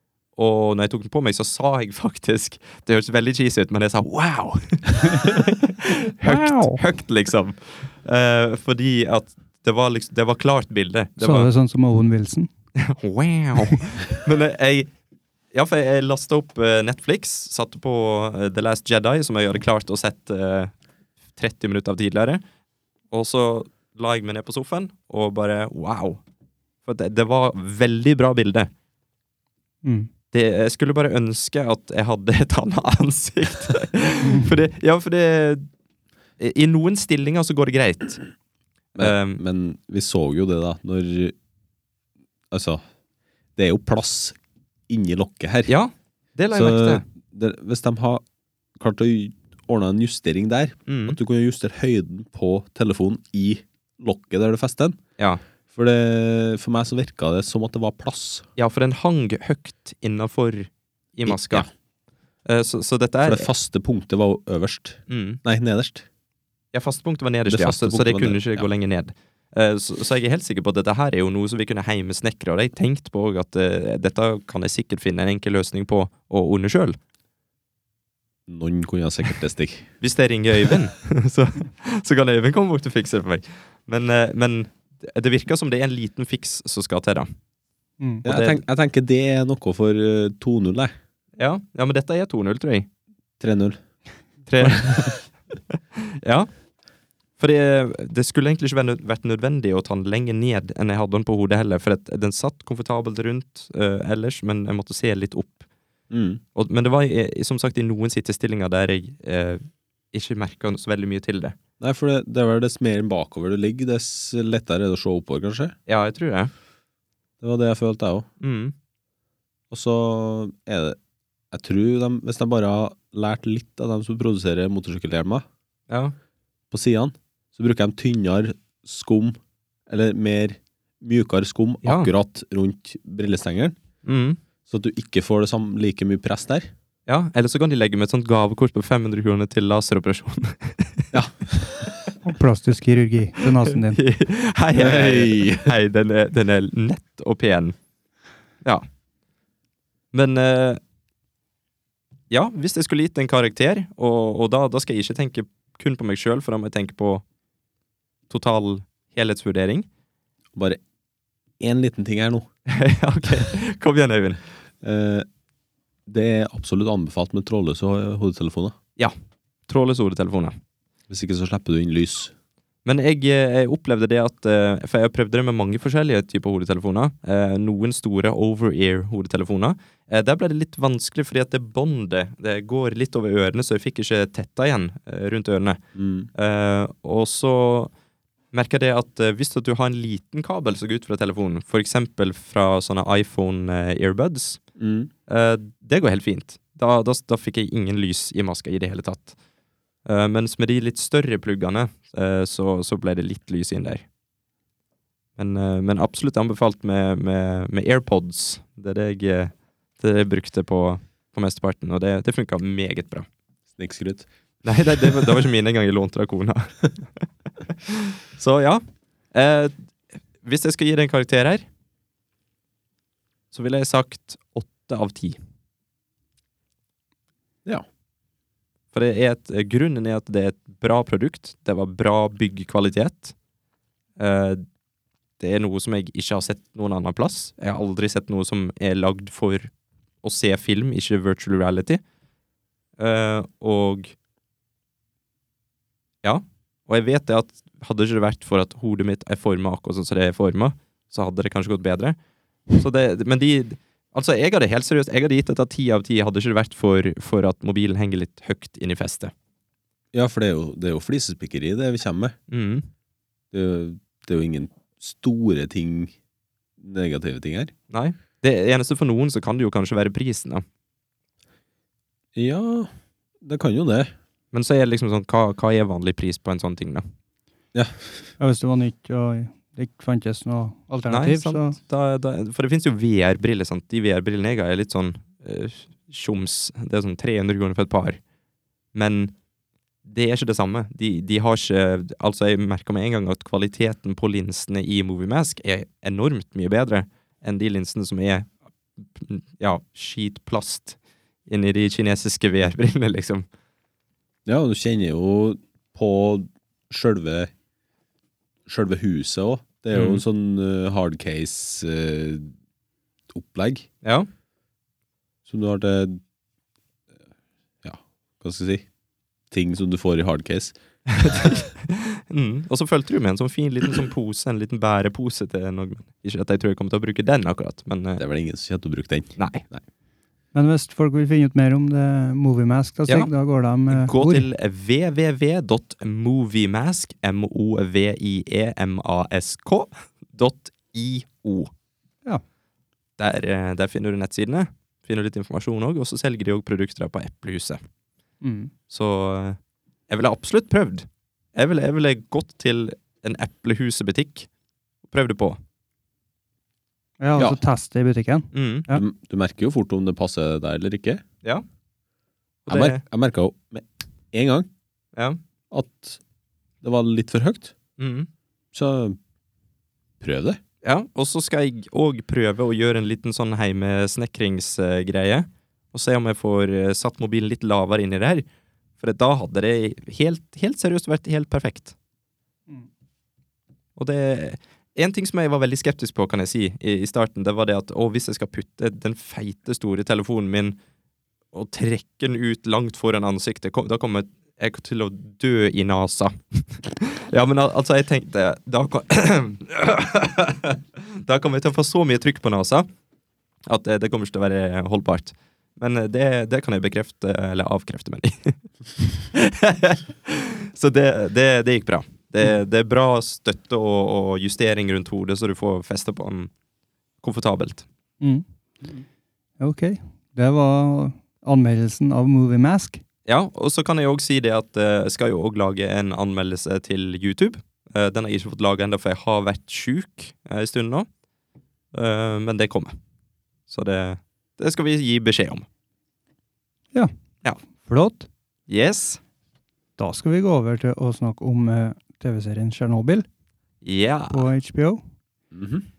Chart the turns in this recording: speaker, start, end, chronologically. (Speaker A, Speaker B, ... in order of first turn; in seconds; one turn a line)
Speaker A: 0.3-11.5
Speaker B: 6.2-6.8
Speaker B: 11.2-12.5
Speaker A: 12.8-14.9
Speaker A: 15.5-20.7
Speaker A: 21.4-22.4
Speaker A: 23.1-26.2
Speaker A: 26.8-28.7
Speaker B: 29.8-30.1
Speaker A: 30.3-35.6
Speaker B: 34.2-34.5
Speaker A: 36.4-38.2
Speaker C: 39.0-41.3
Speaker A: 39.0-39.4
Speaker C: 42.5-42.8
Speaker C: 43.5-44.4
Speaker C: 44.9-45.7
Speaker A: 45.7-47.0
Speaker C: 46.5-48.2
Speaker C: 48.8-55.0
Speaker A: 50.9-51.2
Speaker C: 55.7-58.5
Speaker A: 58.6-61.6
Speaker C: 61.3-61.7
Speaker A: 62.5-63.5
Speaker C: 63.2-66.1
Speaker A: 65.1-65.4
Speaker A: 66.7-77.0
Speaker C: 67.5-68.7
Speaker C: 78.5-79.9
Speaker A: 80.0-87.3
Speaker B: 88.0-88.2
Speaker A: 88.2-88.6
Speaker C: 88.2-90.9
Speaker A: 91.4-92.9
Speaker C: 93.4-93.8
Speaker A: 94.5-95.2
Speaker C: 94.6-95.1
Speaker A: 95.9-96.5
Speaker A: 97.4-105.7
Speaker C: 106.1-106.4
Speaker A: 106.5-111.5
Speaker C: 111.8-115.7
Speaker A: 115.9-116.5
Speaker C: 117.4-118.3
Speaker A: 118.4-118.7
Speaker C: 119.7-121.0
Speaker C: 121.5-125.4
Speaker A: 125.9-126.1
Speaker C: 126.7-129.4
Speaker C: 129.9-133.8
Speaker A: 131.8-132.1
Speaker A: 134.0-134.4
Speaker C: 134.7-136.7
Speaker A: 137.1-141.2
Speaker C: 141.1-141.9
Speaker B: 142.2-144.0
Speaker A: 143.6-147.8
Speaker C: 144.7-145.7
Speaker A: 150.1-150.8
Speaker A: 152.3-157.2
Speaker A: 158.3-159.9
Speaker C: 161.6-162.5
Speaker A: 162.7-164.4
Speaker C: 164.8-165.2
Speaker C: 166.1-168.8
Speaker A: 169.7-170.6
Speaker C: 171.1-172.3
Speaker A: 172.8-185.8
Speaker C: 185.9-186.3
Speaker A: 186.3-187.9
Speaker A: 188.5-194.6
Speaker C: 194.8-195.1
Speaker A: 195.3-199.3
Speaker A: 200.1-204.0
Speaker A: 205.4-213.3
Speaker C: 213.7-214.3
Speaker A: 214.6-219.7
Speaker C: 214.8-215.4
Speaker A: 220.4-221.6
Speaker A: 223.5-225.4
Speaker A: 228.9-233.3
Speaker A: 234.2-234.6
Speaker A: 235.4-239.7
Speaker A: 240.2-242.0
Speaker A: 243.0-244.1
Speaker A: 246.2-252.2
Speaker A: 252.7-259.3
Speaker C: 260.1-262.3
Speaker A: 262.5-262.9
Speaker C: 263.5-266.1
Speaker C: 266.8-267.7
Speaker A: 267.9-270.6
Speaker C: 272.3-274.1
Speaker A: 274.5-277.0
Speaker C: 277.7-278.3
Speaker B: 278.4-281.8
Speaker A: 281.1-288.2
Speaker A: 288.9-289.3
Speaker A: 290.0-303.4
Speaker C: 304.4-307.5
Speaker C: 308.6-312.5
Speaker A: 309.9-310.2
Speaker C: 313.3-313.9
Speaker C: 315.4-316.2
Speaker C: 317.8-318.9
Speaker C: 319.5-320.7
Speaker A: 321.1-328.2
Speaker C: 328.2-329.8
Speaker A: 329.4-329.6
Speaker B: 330.5-334.5
Speaker A: 333.9-341.7
Speaker A: 343.2-347.8
Speaker B: 348.4-348.7
Speaker A: 348.9-349.6
Speaker A: 350.1-354.5
Speaker A: 355.1-355.6
Speaker B: 357.2-359.0
Speaker A: 358.5-358.9
Speaker C: 358.9-361.2
Speaker A: 362.7-363.0
Speaker C: 362.7-364.7
Speaker C: 365.7-366.2
Speaker C: 366.8-367.7
Speaker A: 368.0-368.3
Speaker C: 368.7-369.2
Speaker C: 370.2-370.6
Speaker A: 370.8-378.4
Speaker A: 379.0-381.9
Speaker A: 384.0-390.8
Speaker A: 391.5-402.9
Speaker A: 403.7-416.5
Speaker A: 417.2-417.9
Speaker B: 419.6-423.0
Speaker A: 423.2-431.1
Speaker A: 431.9-432.9
Speaker A: 433.7-435.6
Speaker B: 437.8-438.3
Speaker A: 438.7-439.2
Speaker B: 440.0-443.2
Speaker A: 443.8-444.5
Speaker B: 444.3-445.0
Speaker C: 445.5-445.8